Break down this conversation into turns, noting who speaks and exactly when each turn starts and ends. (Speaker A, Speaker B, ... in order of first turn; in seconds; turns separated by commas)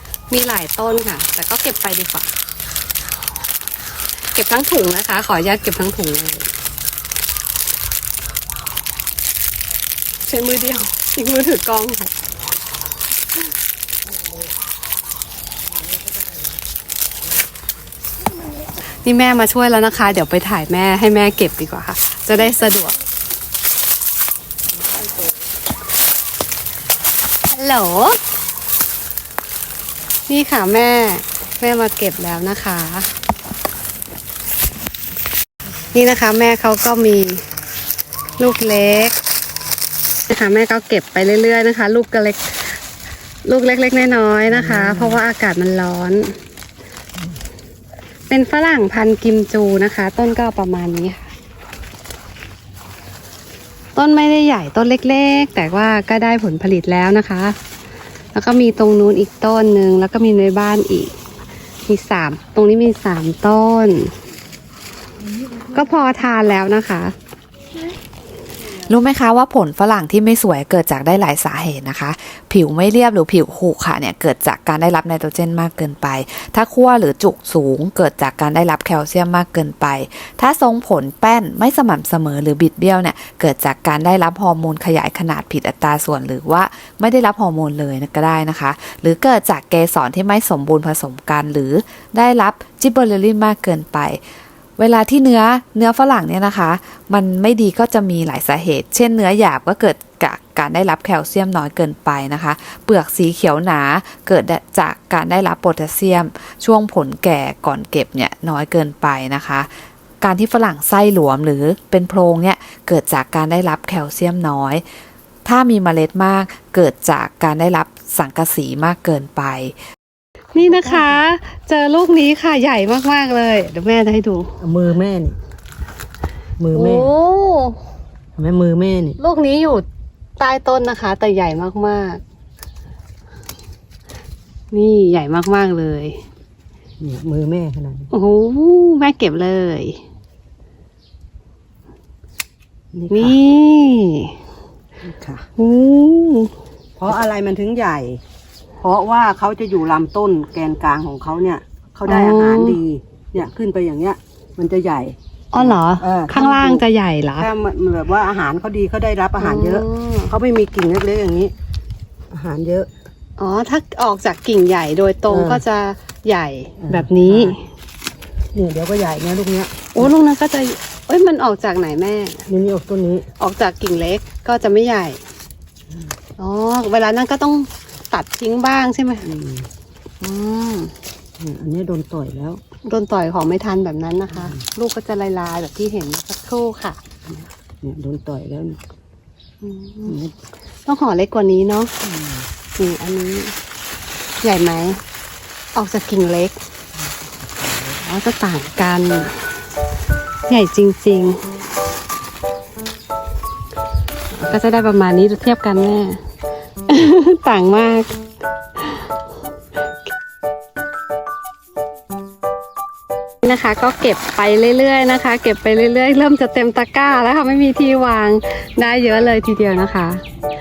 Speaker A: 0.3-2.3, Speaker A: 4.3-6.5, Speaker A: 10.3-12.1, Speaker A: 19.0-22.9, Speaker A: 27.5-28.2, Speaker A: 30.3-33.1, Speaker A: 35.9-37.4, Speaker A: 38.4-39.2, Speaker A: 40.3-42.8, Speaker A: 43.5-46.4, Speaker B: 44.5-45.2, Speaker A: 48.3-51.3, Speaker A: 53.9-57.5, Speaker A: 58.3-61.1, Speaker A: 61.9-64.1, Speaker A: 65.7-67.1, Speaker C: 68.8-94.2, Speaker C: 94.8-109.7, Speaker C: 110.2-114.8, Speaker C: 115.5-119.7, Speaker A: 120.5-124.5, Speaker B: 120.6-121.2, Speaker B: 124.6-125.3, Speaker B: 126.6-127.1, Speaker A: 126.7-127.8, Speaker B: 128.4-129.2, Speaker A: 129.2-129.8, Speaker A: 130.4-132.2, Speaker A: 134.7-136.2, Speaker B: 137.0-138.1, Speaker A: 138.1-140.0, Speaker B: 142.9-143.3, Speaker A: 143.1-144.3, Speaker B: 145.0-145.5, Speaker A: 145.6-146.5, Speaker B: 147.0-148.2, Speaker B: 148.8-156.8, Speaker A: 152.1-152.8, Speaker A: 155.5-157.5, Speaker B: 157.4-161.5, Speaker A: 159.4-160.3, Speaker B: 162.3-162.9, Speaker A: 163.4-167.6, Speaker B: 165.3-165.6, Speaker B: 166.8-167.5, Speaker B: 168.5-170.1, Speaker A: 169.9-172.4, Speaker B: 172.5-173.3, Speaker A: 173.4-175.2, Speaker A: 176.4-179.3, Speaker B: 179.2-179.7, Speaker A: 180.2-180.9, Speaker B: 181.4-182.6, Speaker A: 182.8-187.0, Speaker B: 187.3-188.8, Speaker A: 189.6-190.2, Speaker B: 190.1-190.3, Speaker A: 190.8-191.9, Speaker B: 192.0-192.5, Speaker A: 192.8-193.5, Speaker A: 194.4-195.0, Speaker A: 195.7-196.6, Speaker B: 197.5-198.0, Speaker A: 198.0-199.3, Speaker A: 200.5-201.4, Speaker A: 204.3-206.2, Speaker A: 206.9-208.1, Speaker A: 213.4-220.2